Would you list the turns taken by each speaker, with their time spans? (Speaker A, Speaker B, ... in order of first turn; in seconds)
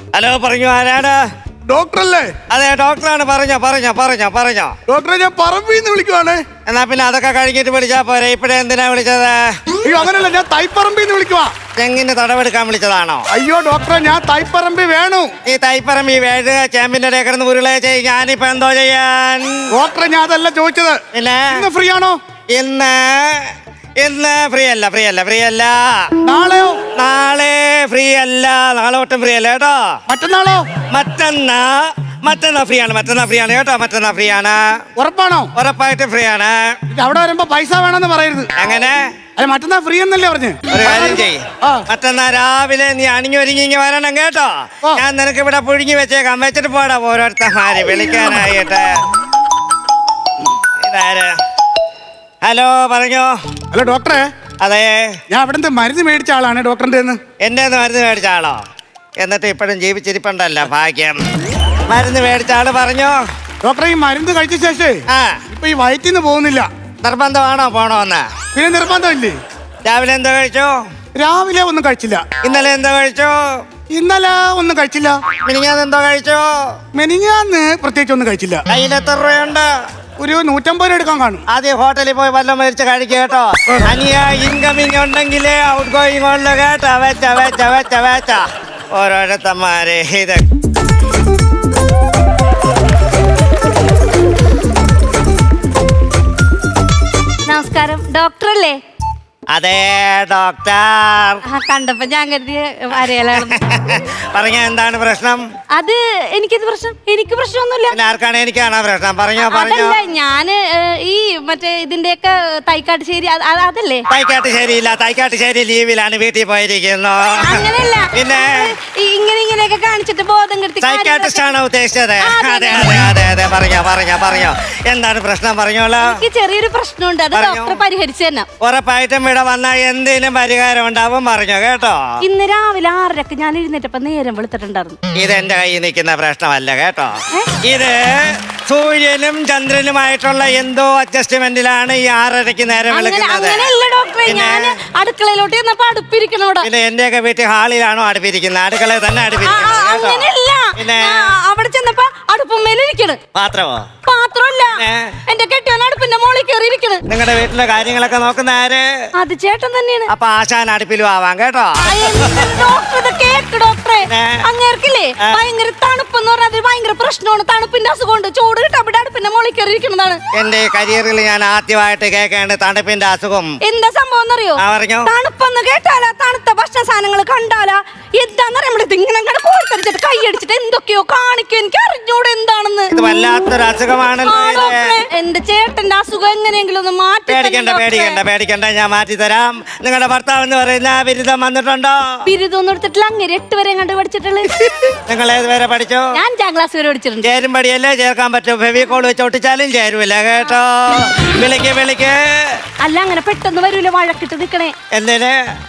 Speaker A: 0.1-1.2, 2.5-4.7, 6.7-9.6, 11.8-13.2, 15.4-19.7, 21.1-21.6, 22.5-26.1, 26.9-30.0, 30.9-34.8, 35.5-36.7, 38.6-39.0, 40.7-49.0, 50.8-51.4, 52.4-53.3, 54.6-55.2, 57.4-58.6, 59.2-61.2, 61.9-63.2, 65.1-65.4, 67.0-68.3, 69.8-70.8, 72.4-73.6, 75.4-76.7, 78.7-79.7, 81.5-90.4, 99.5-101.4, 103.4-105.4, 107.9-110.0, 114.1-117.6, 118.1-118.7, 120.8-126.2, 127.3-127.8, 128.6-132.1, 135.1-143.7, 144.3-144.8, 146.6-151.3, 153.3-153.9, 154.8-155.1, 157.1-158.9, 160.1-162.5, 164.1-164.4, 170.3-173.5, 174.6-175.1, 182.9-184.9, 187.3-192.2, 194.8-196.1, 197.2-202.6, 204.9-205.4
Speaker B: 1.7-2.3, 4.9-6.4, 9.8-11.6, 13.3-15.3, 19.7-22.2, 26.2-26.8, 30.1-30.7, 35.0-35.5, 36.9-38.5, 39.4-41.9, 53.7-54.3, 55.3-57.2, 63.6-66.7, 68.5-69.4, 71.2-72.2, 73.9-75.2, 76.9-78.6, 80.2-81.5
Speaker C: 97.5-98.8, 101.5-103.6, 105.7-108.0, 109.4-114.1, 117.4-121.5, 122.2-123.1, 126.0-128.5, 132.2-135.0, 142.9-146.7, 149.4-153.2, 154.1-157.0, 159.2-160.1, 161.8-170.2, 173.6-182.9, 184.3-188.2, 192.3-194.5, 196.1-197.3, 202.8-204.7